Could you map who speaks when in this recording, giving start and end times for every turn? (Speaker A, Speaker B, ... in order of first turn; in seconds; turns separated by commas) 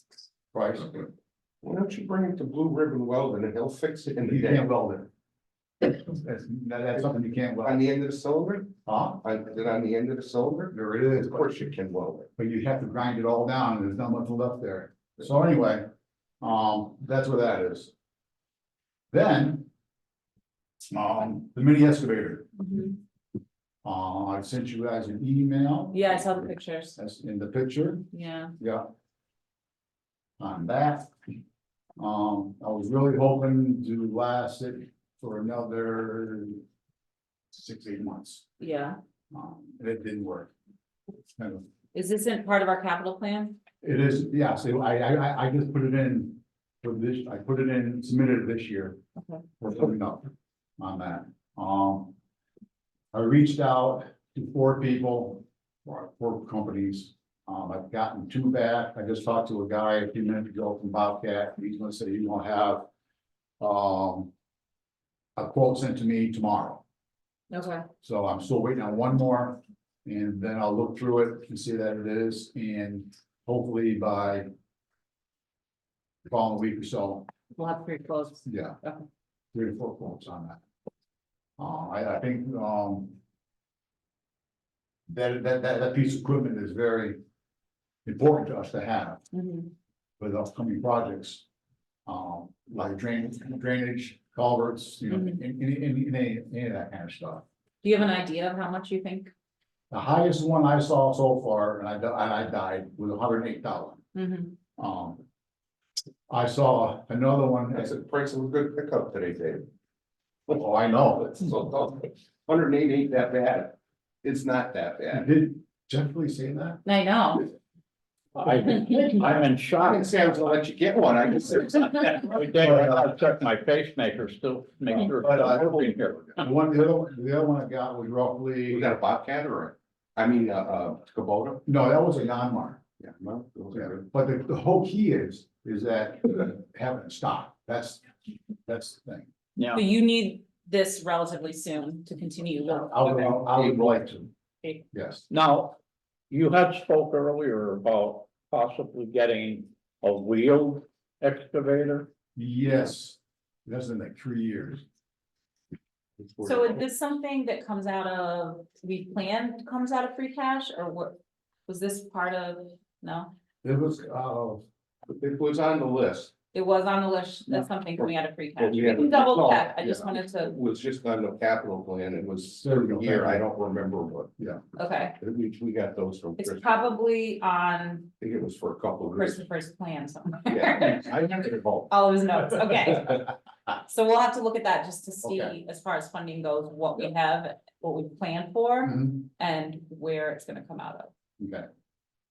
Speaker A: 0.5-1.1, Speaker B: 1.6-4.7, Speaker A: 4.3-5.1, Speaker A: 5.8-7.8, Speaker B: 7.6-12.3, Speaker A: 8.8-9.2, Speaker A: 10.7-11.5, Speaker A: 12.4-15.8, Speaker A: 16.4-17.9, Speaker A: 19.1-19.7, Speaker A: 20.9-22.5, Speaker C: 22.6-23.0, Speaker A: 23.8-28.9, Speaker C: 25.9-27.0, Speaker C: 28.1-28.5, Speaker A: 30.4-31.1, Speaker A: 32.0-36.6, Speaker A: 37.5-38.5, Speaker C: 38.6-39.0, Speaker A: 39.3-40.5, Speaker A: 41.3-41.7, Speaker C: 41.9-43.6, Speaker A: 43.8-49.0, Speaker C: 49.2-49.4, Speaker A: 49.6-52.1, Speaker A: 53.1-62.9, Speaker A: 63.6-64.3, Speaker A: 65.3-66.8, Speaker C: 67.5-67.8, Speaker A: 68.0-74.5, Speaker A: 76.2-77.3, Speaker C: 77.5-79.0, Speaker A: 78.4-78.8, Speaker A: 79.5-80.6, Speaker A: 81.6-83.2, Speaker A: 85.1-87.2, Speaker A: 88.0-89.3, Speaker C: 89.3-89.7, Speaker A: 90.2-91.4, Speaker A: 92.0-97.4, Speaker C: 95.1-95.4, Speaker C: 97.8-99.3, Speaker A: 99.9-104.0, Speaker C: 104.1-104.5, Speaker A: 104.8-105.2, Speaker A: 106.3-107.9, Speaker B: 107.7-109.7, Speaker A: 110.5-111.5, Speaker B: 111.2-115.3, Speaker A: 115.1-116.8, Speaker C: 116.8-117.5, Speaker D: 118.3-120.0, Speaker B: 119.8-122.2, Speaker D: 122.3-126.4, Speaker A: 122.6-123.1, Speaker A: 125.2-125.7, Speaker A: 126.4-129.0, Speaker B: 128.7-131.6, Speaker A: 131.7-132.8, Speaker B: 133.0-134.0, Speaker A: 133.7-138.1, Speaker A: 138.7-139.3, Speaker D: 139.6-139.8, Speaker C: 139.7-143.4, Speaker A: 142.7-144.3, Speaker B: 143.4-144.0, Speaker A: 144.9-145.2, Speaker D: 145.3-145.8, Speaker D: 146.3-152.1, Speaker A: 152.3-154.8, Speaker C: 156.4-161.2, Speaker C: 161.7-163.3, Speaker A: 163.6-164.6, Speaker B: 165.1-166.3, Speaker C: 166.5-170.6, Speaker B: 168.6-174.3, Speaker A: 172.6-173.4, Speaker C: 174.8-175.2, Speaker B: 175.2-176.9, Speaker C: 176.4-178.1, Speaker B: 178.2-179.4, Speaker C: 179.2-181.2, Speaker B: 180.5-181.9, Speaker C: 181.8-191.1, Speaker A: 185.2-185.5, Speaker A: 188.8-189.2, Speaker A: 191.4-191.7